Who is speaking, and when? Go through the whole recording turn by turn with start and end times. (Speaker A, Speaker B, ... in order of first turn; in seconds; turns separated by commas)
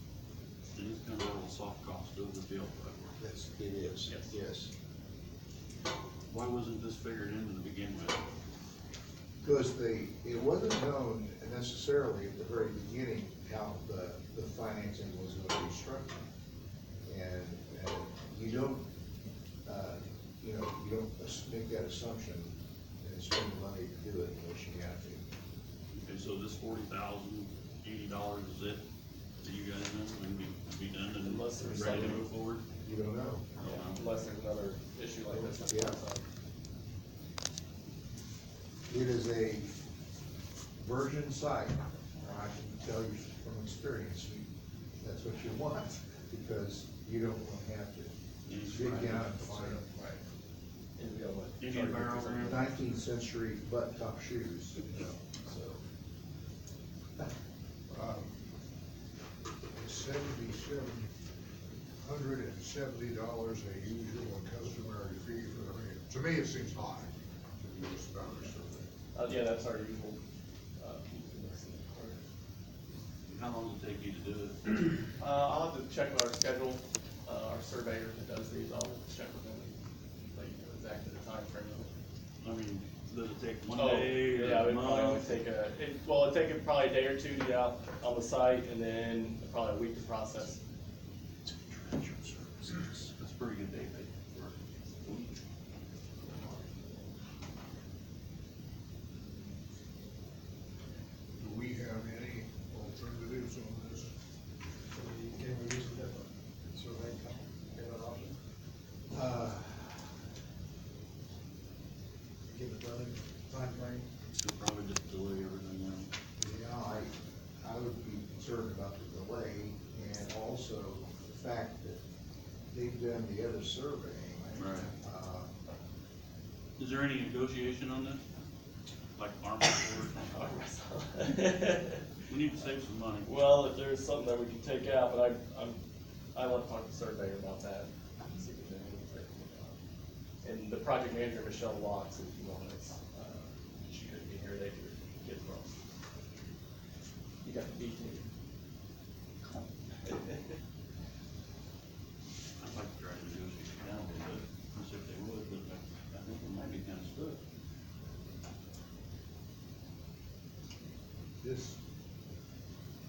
Speaker A: 0.7-3.2, Speaker B: 3.2-4.7, Speaker A: 6.3-8.3, Speaker B: 9.4-16.3, Speaker B: 17.0-18.9, Speaker B: 19.7-25.2, Speaker A: 25.9-28.8, Speaker A: 29.4-32.6, Speaker C: 31.2-32.3, Speaker B: 31.8-32.2, Speaker B: 32.8-33.5, Speaker A: 33.6-34.2, Speaker C: 33.6-36.2, Speaker B: 35.3-36.0, Speaker B: 38.9-39.7, Speaker B: 40.8-44.5, Speaker B: 45.0-49.9, Speaker A: 48.5-49.3, Speaker D: 49.4-49.8, Speaker C: 50.0-50.2, Speaker C: 51.0-52.7, Speaker A: 51.6-52.6, Speaker B: 52.5-55.2, Speaker D: 57.9-58.4, Speaker D: 59.8-61.1, Speaker D: 62.0-68.9, Speaker C: 69.1-70.2, Speaker C: 70.8-72.2, Speaker A: 73.3-75.0, Speaker C: 75.2-81.9, Speaker A: 82.4-85.4, Speaker C: 83.8-90.6, Speaker B: 91.5-93.1, Speaker A: 93.2-95.4, Speaker D: 101.4-104.1, Speaker E: 105.0-108.3, Speaker B: 109.1-110.0, Speaker E: 112.7-114.0, Speaker A: 114.4-116.1, Speaker B: 116.4-122.0, Speaker B: 122.7-125.5, Speaker A: 124.6-124.9, Speaker A: 126.8-128.2, Speaker A: 129.2-130.6, Speaker C: 130.1-132.1, Speaker A: 132.3-133.3, Speaker C: 133.2-135.8, Speaker C: 136.3-139.8, Speaker C: 140.4-145.7, Speaker C: 147.4-148.3, Speaker C: 150.0-150.4, Speaker A: 152.6-157.4, Speaker B: 161.4-161.8